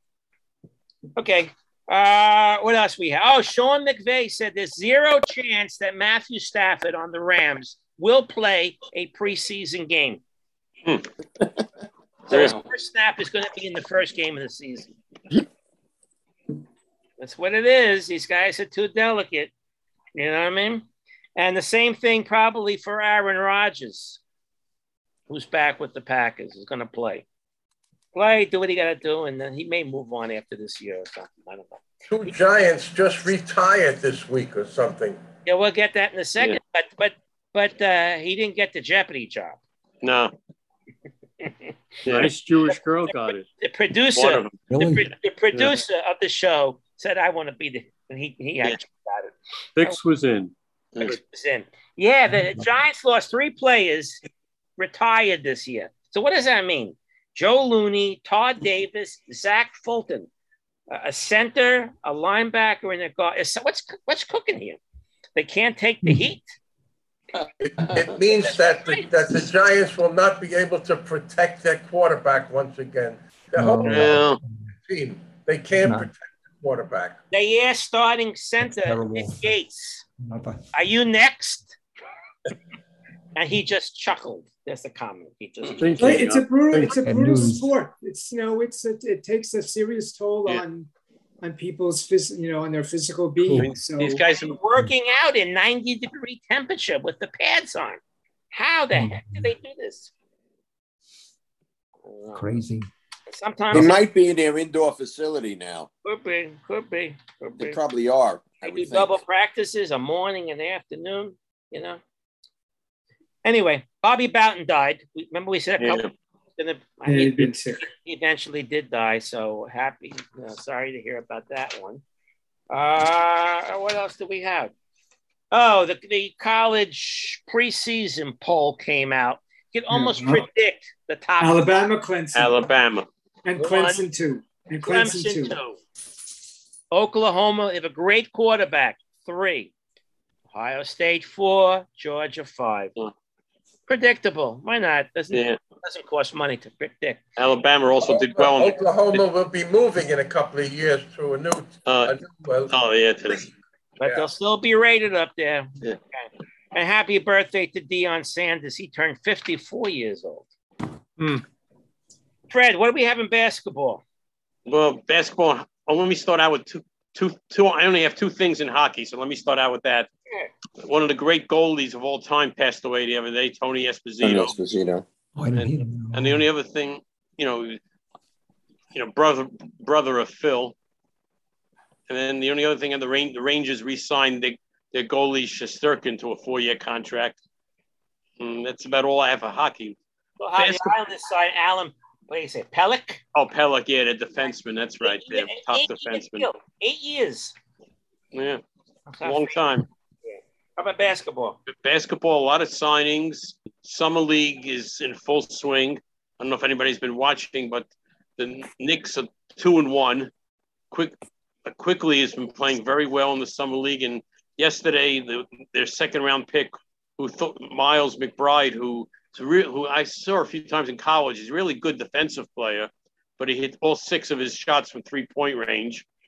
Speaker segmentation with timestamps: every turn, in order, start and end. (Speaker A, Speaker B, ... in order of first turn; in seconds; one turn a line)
Speaker A: 1.2-10.2
Speaker A: 12.3-14.9
Speaker A: 17.2-19.5
Speaker A: 20.1-24.2
Speaker A: 25.3-27.2
Speaker A: 28.1-31.8
Speaker B: 32.1-35.2
Speaker A: 35.5-39.6
Speaker C: 40.0-40.3
Speaker A: 41.4-41.7
Speaker C: 42.0-42.3
Speaker D: 42.1-43.5
Speaker A: 42.7-50.0
Speaker C: 44.1-44.6
Speaker E: 44.7-45.1
Speaker D: 49.8-50.5
Speaker A: 51.0-54.2
Speaker A: 54.8-60.3
Speaker A: 60.9-64.8
Speaker A: 65.4-66.5
Speaker B: 67.6-74.3
Speaker A: 68.3-69.4
Speaker E: 73.6-74.7
Speaker C: 73.8-74.4
Speaker B: 74.8-77.2
Speaker E: 75.8-76.1
Speaker A: 77.3-80.0
Speaker E: 78.6-79.5
Speaker E: 80.2-80.7
Speaker A: 80.7-81.8
Speaker A: 83.3-86.2
Speaker D: 85.8-87.0
Speaker F: 86.0-90.9
Speaker E: 87.0-87.7
Speaker F: 91.4-94.2
Speaker E: 93.4-93.7
Speaker C: 93.6-94.6
Speaker A: 94.3-98.0
Speaker A: 98.5-100.1
Speaker E: 98.9-99.5
Speaker A: 102.1-102.4
Speaker E: 102.3-102.9
Speaker A: 103.3-104.0
Speaker G: 103.7-105.9
Speaker A: 106.0-107.8
Speaker G: 107.6-109.1
Speaker A: 108.6-112.0
Speaker A: 113.4-116.0
Speaker C: 115.8-116.1
Speaker A: 116.6-122.0
Speaker F: 117.1-117.8
Speaker A: 122.7-124.7
Speaker A: 125.5-131.7
Speaker F: 129.9-130.4
Speaker F: 131.4-132.7
Speaker C: 132.3-133.1
Speaker F: 133.4-135.6
Speaker A: 133.6-134.1
Speaker A: 134.8-135.8
Speaker A: 136.9-139.7
Speaker A: 140.5-142.9
Speaker A: 143.9-147.2
Speaker C: 145.3-145.6
Speaker C: 147.4-149.2
Speaker B: 148.1-152.8
Speaker C: 151.9-152.1
Speaker C: 152.7-153.5
Speaker A: 154.0-160.5
Speaker A: 162.5-164.0
Speaker C: 164.7-170.1
Speaker C: 170.8-174.5
Speaker G: 174.2-175.0
Speaker E: 175.4-176.5
Speaker C: 175.5-177.8
Speaker C: 178.9-180.8
Speaker C: 182.1-187.4
Speaker C: 188.4-190.0
Speaker A: 190.4-193.2
Speaker C: 190.6-190.9
Speaker C: 193.3-196.5
Speaker A: 195.0-197.6
Speaker C: 198.3-198.6
Speaker A: 199.1-199.6
Speaker C: 199.2-199.9
Speaker A: 200.2-201.6
Speaker C: 201.7-210.3
Speaker C: 211.7-226.1